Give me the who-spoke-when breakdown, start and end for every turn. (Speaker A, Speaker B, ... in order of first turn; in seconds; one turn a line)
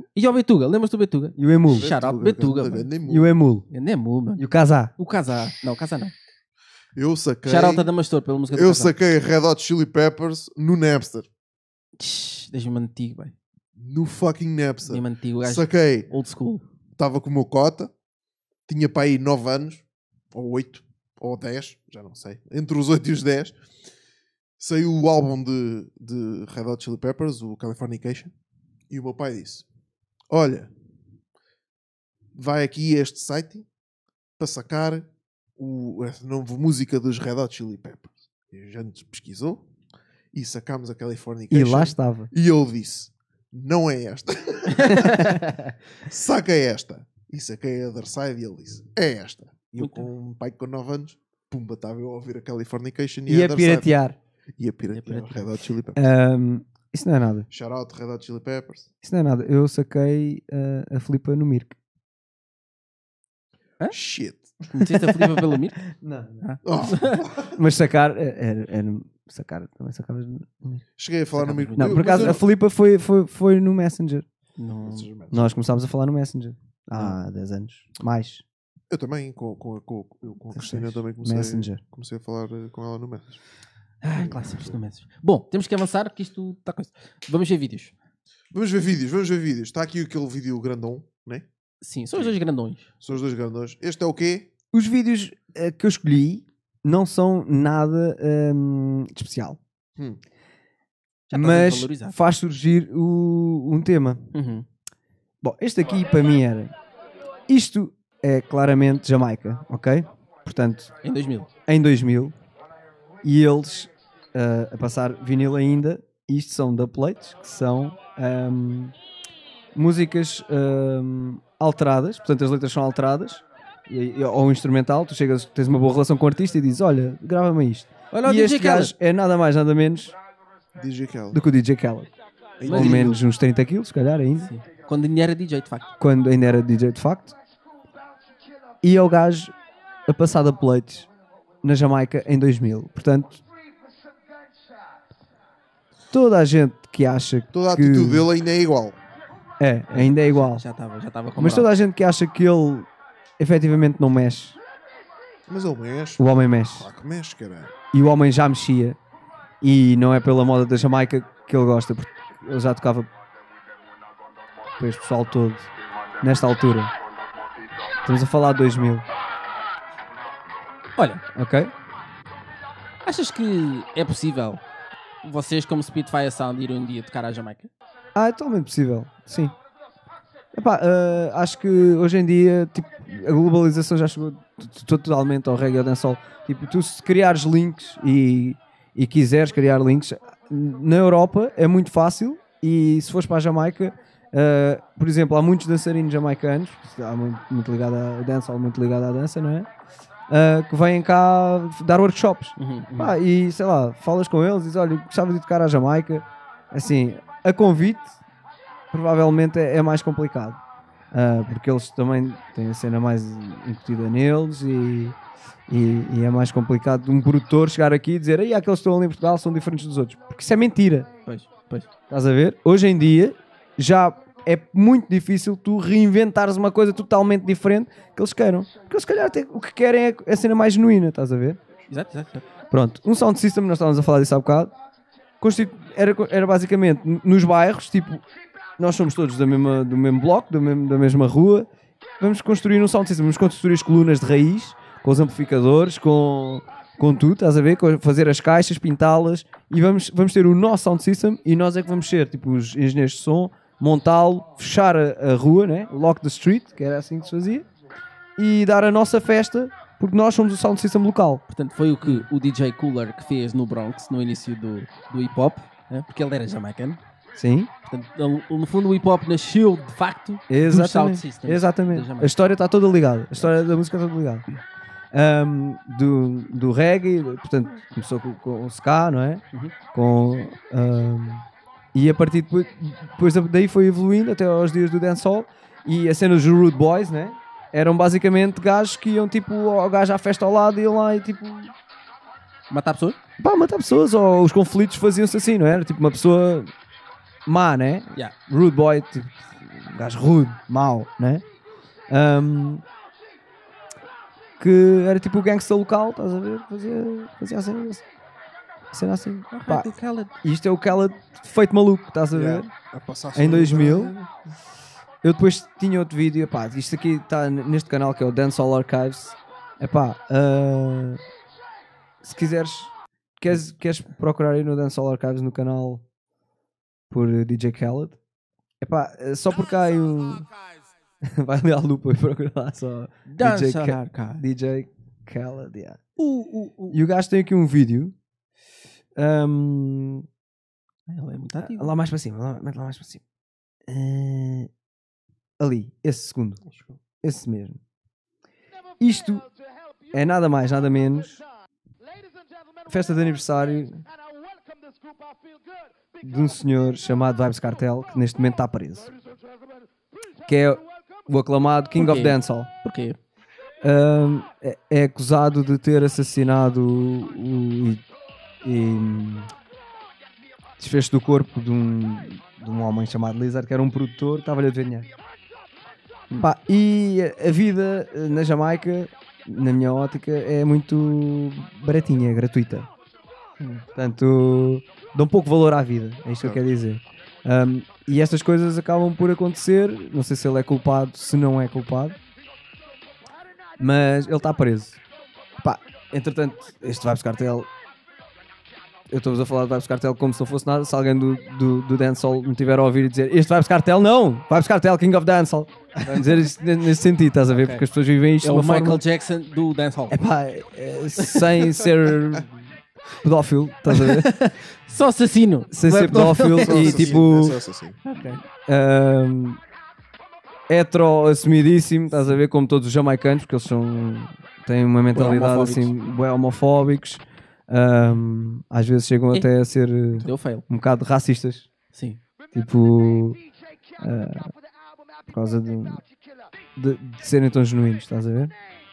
Speaker A: 0.1-2.9
Speaker B: 1.4-1.9
Speaker C: 1.7-3.4
Speaker B: 3.1-3.7
Speaker A: 3.7-4.4
Speaker B: 4.4-4.9
Speaker A: 5.0-6.1
Speaker C: 6.9-7.9
Speaker A: 7.4-8.9
Speaker C: 8.5-11.3
Speaker A: 12.0-13.3
Speaker C: 13.8-16.1
Speaker A: 14.8-16.6
Speaker C: 16.9-17.9
Speaker C: 18.7-23.6
Speaker C: 24.6-28.3
Speaker C: 28.9-29.6
Speaker C: 30.3-30.7
Speaker C: 32.3-33.7
Speaker C: 34.4-39.6
Speaker C: 40.3-45.4
Speaker B: 41.5-42.3
Speaker A: 44.7-45.7
Speaker C: 46.0-53.9
Speaker A: 49.8-50.0
Speaker B: 53.3-54.1
Speaker C: 54.6-56.1
Speaker A: 54.9-55.5
Speaker B: 56.0-57.5
Speaker C: 57.5-58.9
Speaker B: 59.0-61.7
Speaker C: 63.9-64.6
Speaker A: 64.7-65.8
Speaker B: 65.9-66.4
Speaker A: 66.4-67.2
Speaker C: 66.6-67.6
Speaker B: 67.5-70.8
Speaker C: 71.0-72.5
Speaker A: 71.3-72.4
Speaker B: 71.8-74.2
Speaker A: 74.6-75.1
Speaker C: 74.8-75.6
Speaker B: 75.3-78.4
Speaker C: 78.9-83.4
Speaker B: 80.5-81.8
Speaker A: 84.0-87.9
Speaker C: 84.1-84.8
Speaker C: 88.5-91.5
Speaker A: 91.8-92.9
Speaker C: 93.0-94.5
Speaker B: 94.7-99.6
Speaker A: 101.3-102.2
Speaker B: 101.3-104.3
Speaker A: 104.3-104.7
Speaker B: 105.4-106.7
Speaker B: 107.5-110.9
Speaker A: 111.0-111.5
Speaker B: 111.7-112.3
Speaker B: 113.2-118.9
Speaker B: 119.7-130.1
Speaker A: 128.1-128.9
Speaker C: 130.7-131.4
Speaker B: 131.3-132.1
Speaker C: 132.6-133.2
Speaker A: 132.6-133.2
Speaker B: 132.7-134.5
Speaker A: 134.4-135.9
Speaker B: 136.0-137.3
Speaker B: 138.8-139.5
Speaker B: 140.1-141.1
Speaker B: 141.6-143.4
Speaker B: 146.1-148.3
Speaker C: 147.5-149.0
Speaker B: 149.6-150.6
Speaker A: 149.9-151.7
Speaker B: 151.4-152.9
Speaker B: 153.4-154.6
Speaker C: 155.5-157.7
Speaker B: 156.2-156.9
Speaker B: 157.9-159.0
Speaker B: 159.6-163.1
Speaker B: 164.8-165.7
Speaker B: 166.2-166.9
Speaker B: 168.1-169.1
Speaker A: 171.0-171.2
Speaker B: 171.3-171.7
Speaker A: 173.0-174.6
Speaker A: 175.2-177.7
Speaker B: 178.1-179.6
Speaker B: 180.5-199.7
Speaker B: 200.3-208.2
Speaker A: 202.6-203.2
Speaker B: 208.9-210.6
Speaker B: 211.1-215.2
Speaker B: 215.7-221.1
Speaker A: 221.3-221.9
Speaker B: 222.1-231.6
Speaker A: 231.9-232.4
Speaker B: 232.7-234.7
Speaker B: 235.4-238.2
Speaker B: 238.8-241.7
Speaker B: 242.2-257.7
Speaker B: 258.4-261.4
Speaker A: 261.5-267.0
Speaker B: 267.4-267.7
Speaker A: 267.9-272.3
Speaker B: 270.5-274.5
Speaker B: 275.1-291.7
Speaker A: 292.7-293.2
Speaker B: 293.4-296.7
Speaker B: 297.4-301.4
Speaker B: 302.1-302.8
Speaker B: 304.6-308.0
Speaker B: 308.9-309.9
Speaker A: 309.5-310.4
Speaker B: 310.4-312.7
Speaker C: 312.3-314.3
Speaker B: 313.3-314.1
Speaker B: 315.2-321.2
Speaker B: 322.2-326.0
Speaker B: 327.1-328.2
Speaker B: 328.8-330.5
Speaker B: 331.2-336.0
Speaker A: 333.3-334.4
Speaker A: 336.2-337.0
Speaker B: 336.9-338.1
Speaker B: 339.1-340.2
Speaker A: 341.1-341.9
Speaker B: 341.6-343.2
Speaker B: 343.9-344.7
Speaker B: 345.6-346.6
Speaker C: 346.6-347.0
Speaker B: 347.2-347.8
Speaker B: 349.0-349.4
Speaker B: 350.1-351.4
Speaker B: 352.9-354.1
Speaker B: 356.2-359.1
Speaker B: 360.5-362.7
Speaker A: 362.0-363.2
Speaker B: 363.8-368.1
Speaker B: 368.6-369.5
Speaker B: 370.8-375.1
Speaker B: 376.4-382.9
Speaker B: 383.9-392.2
Speaker B: 393.8-395.0
Speaker B: 395.6-397.7
Speaker B: 399.1-409.0
Speaker A: 405.9-406.5
Speaker A: 407.5-407.8
Speaker A: 408.4-410.2
Speaker B: 410.1-412.5
Speaker A: 411.2-411.8
Speaker B: 413.2-414.3
Speaker A: 413.9-417.3
Speaker B: 415.7-417.6
Speaker C: 416.6-418.0
Speaker A: 418.1-418.4
Speaker B: 418.6-419.6
Speaker B: 420.7-431.7
Speaker A: 425.1-425.9
Speaker A: 430.1-430.6
Speaker A: 431.9-432.2
Speaker B: 432.5-433.4
Speaker B: 434.0-434.5
Speaker B: 435.3-436.0
Speaker B: 436.8-438.5